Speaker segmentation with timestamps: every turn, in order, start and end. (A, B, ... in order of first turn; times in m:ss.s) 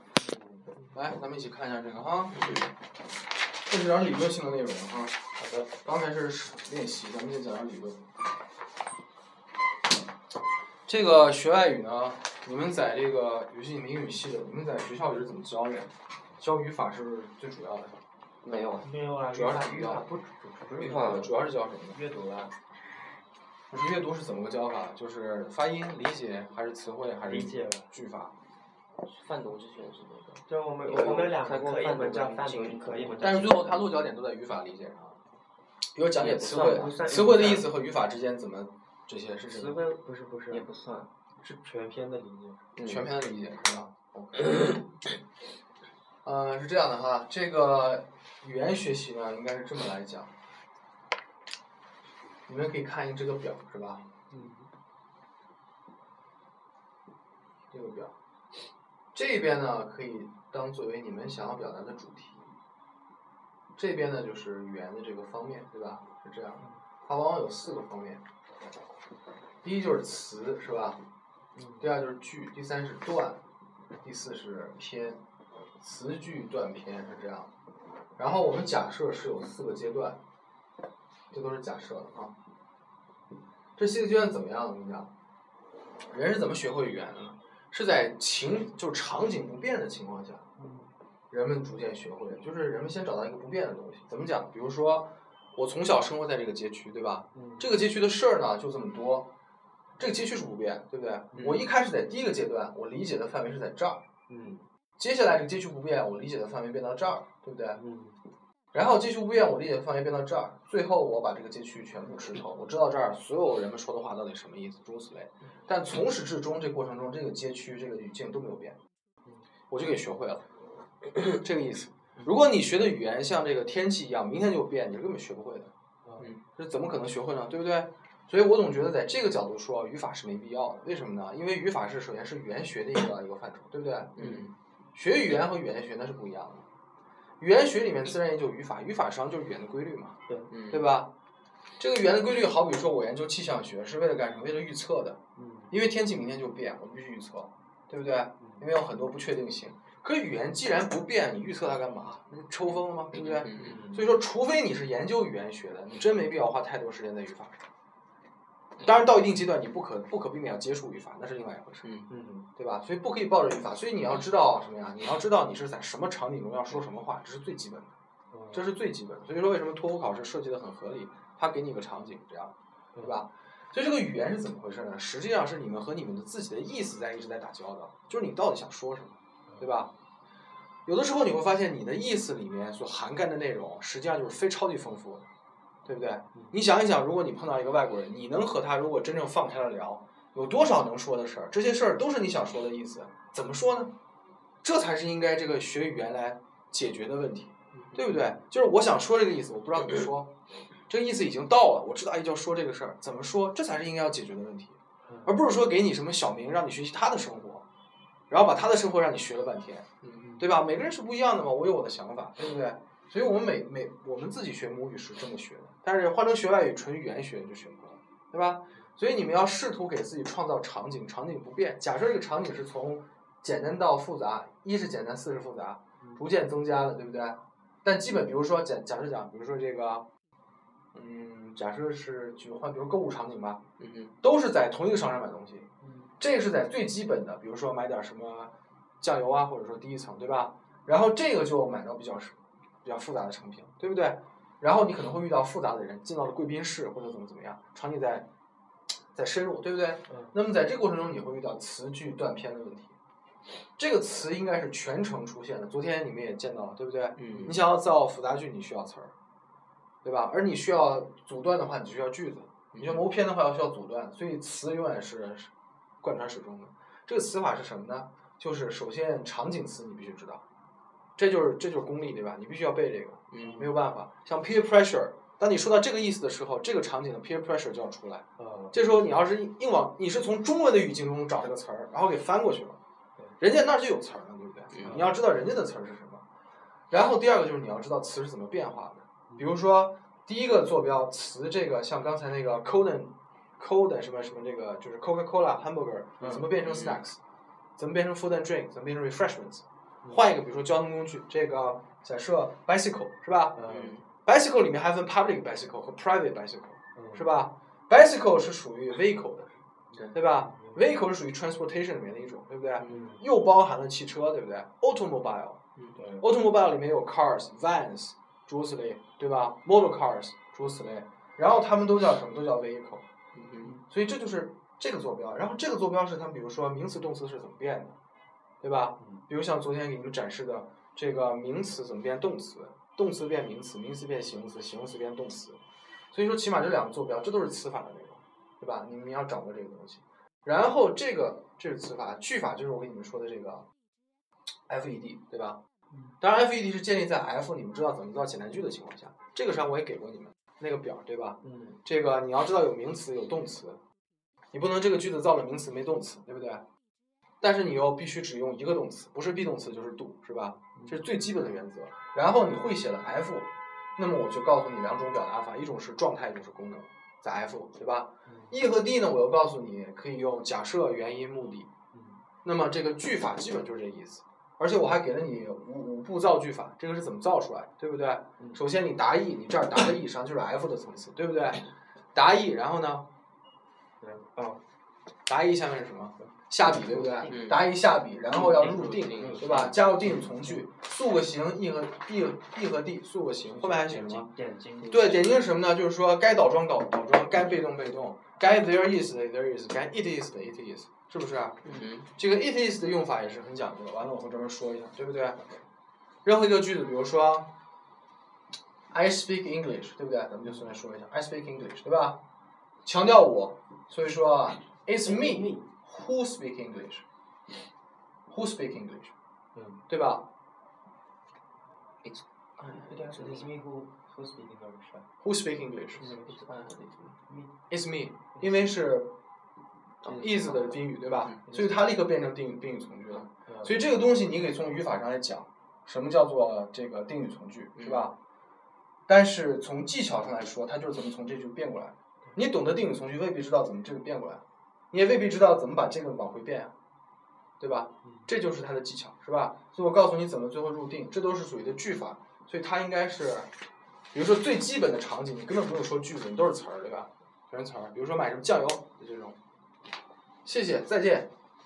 0:00.3-0:00.6 A
0:00.9-0:02.6 B
0:03.6-0:05.2 B
0:05.4-0:05.7 A
0:05.7-0:08.0 B
0:10.9-0:18.0 B
0:18.4-0:18.9 C
0:18.8-0:21.3 A
0:19.3-0:20.1 B
0:20.8-0:22.0 B
0:20.8-0:21.3 C
0:21.9-0:22.6 A
0:23.7-0:28.3 B
0:27.2-0:27.9 A
0:29.0-0:33.7 C
0:30.4-0:33.7 A
0:33.2-0:35.2 B
0:35.9-0:39.8 B
0:36.2-0:37.2 C
0:36.5-0:37.7 A
0:39.5-0:40.7 A
0:40.5-0:41.1 C
0:41.4-0:42.6 A
0:42.8-0:43.1 C
0:42.8-0:44.4 B
0:46.2-0:50.3 B
0:52.5-0:54.1 B
0:54.3-0:54.7 A
0:57.7-0:58.1 B
0:59.1-1:02.5 B
1:03.8-1:08.2 B
1:09.6-1:11.0 B
1:11.6-1:11.9 A
1:11.8-1:13.4 B
1:14.0-1:15.2 B
1:15.8-1:17.5 B
1:18.2-1:20.2 B
1:21.3-1:22.3 B
1:23.8-1:25.1 B
1:26.1-1:30.5 B
1:30.6-1:30.9 A
1:31.3-1:39.3 B
1:37.3-1:37.7 A
1:40.0-1:44.0 B
1:41.3-1:41.6 A
1:44.3-1:44.7 A
1:45.0-1:47.8 B
1:47.8-1:48.2 A
1:48.7-1:58.8 B
1:59.7-2:00.4 B
2:01.2-2:05.7 B
2:06.1-2:06.3 A
2:06.5-2:14.3 B
2:14.2-2:14.5 C
2:15.0-2:16.7 B
2:17.4-2:20.2 B
2:20.3-2:20.5 A
2:20.5-2:20.9 C
2:20.7-2:21.1 B
2:21.8-2:37.6 B
2:25.4-2:25.7 A
2:28.4-2:28.7 A
2:33.2-2:33.8 C
2:33.5-2:34.1 A
2:38.8-2:41.9 B
2:41.8-2:42.1 C
2:42.1-2:42.5 A
2:42.6-2:47.9 B
2:48.3-2:48.7 A
2:48.5-2:59.9 B
3:00.9-3:05.3 B
3:05.8-3:13.9 B
3:14.6-3:20.3 B
3:20.9-3:27.6 B
3:25.1-3:25.3 A
3:28.3-3:29.9 B
3:30.2-3:30.6 A
3:30.4-3:50.1 B
3:50.9-3:53.6 B
3:53.8-3:54.1 C
3:54.2-3:55.7 B
3:55.8-3:56.1 A
3:56.2-4:08.3 B
4:09.1-4:12.9 B
4:10.1-4:10.4 A
4:13.8-4:19.1 B
4:17.2-4:17.6 C
4:20.0-4:25.5 B
4:26.0-4:30.4 B
4:31.2-4:42.8 B
4:33.3-4:33.6 C
4:33.4-4:33.6 A
4:38.4-4:38.8 A
4:43.4-4:46.2 B
4:44.8-4:45.1 A
4:46.9-4:57.2 B
4:49.3-4:49.6 A
4:56.2-4:56.5 A
4:56.6-4:57.0 C
4:57.8-5:09.6 B
5:03.6-5:04.0 A
5:03.6-5:04.0 C
5:07.0-5:07.4 A
5:10.0-5:11.0 A
5:10.1-5:15.6 B
5:12.8-5:13.2 A
5:16.0-5:16.2 A
5:16.2-5:23.0 B
5:23.3-5:23.7 C
5:23.8-5:28.0 B
5:28.6-5:35.6 B
5:36.1-5:43.7 B
5:44.7-5:45.6 B
5:46.2-5:53.8 B
5:51.4-5:51.8 A
5:54.5-5:56.7 B
5:57.4-6:11.7 B
6:00.8-6:01.0 A
6:08.3-6:08.5 A
6:11.9-6:12.2 A
6:12.4-6:23.1 B
6:24.0-6:24.6 A
6:25.3-6:34.3 B
6:26.2-6:27.6 A
6:27.3-6:27.6 C
6:28.3-6:30.6 A
6:33.5-6:35.4 A
6:34.9-6:45.4 B
6:41.6-6:42.1 C
6:46.2-6:47.5 B
6:48.9-6:52.2 B
6:52.8-6:57.0 B
6:55.0-6:55.6 A
6:58.3-6:59.1 B
6:59.6-6:59.8 A
6:59.9-7:00.3 B
7:02.0-7:03.6 C
7:02.8-7:05.1 A
7:05.2-7:06.1 B
7:06.0-7:06.4 A
7:06.0-7:07.2 C
7:07.3-7:07.5 A
7:07.7-7:09.1 B
7:08.4-7:08.8 A
7:10.0-7:10.3 C
7:10.0-7:10.8 A
7:10.2-7:18.2 B
7:11.5-7:12.0 A
7:13.5-7:13.7 A
7:17.8-7:18.1 C
7:19.1-7:26.7 B
7:27.6-7:33.5 B
7:34.1-7:39.4 B
7:40.4-7:41.3 B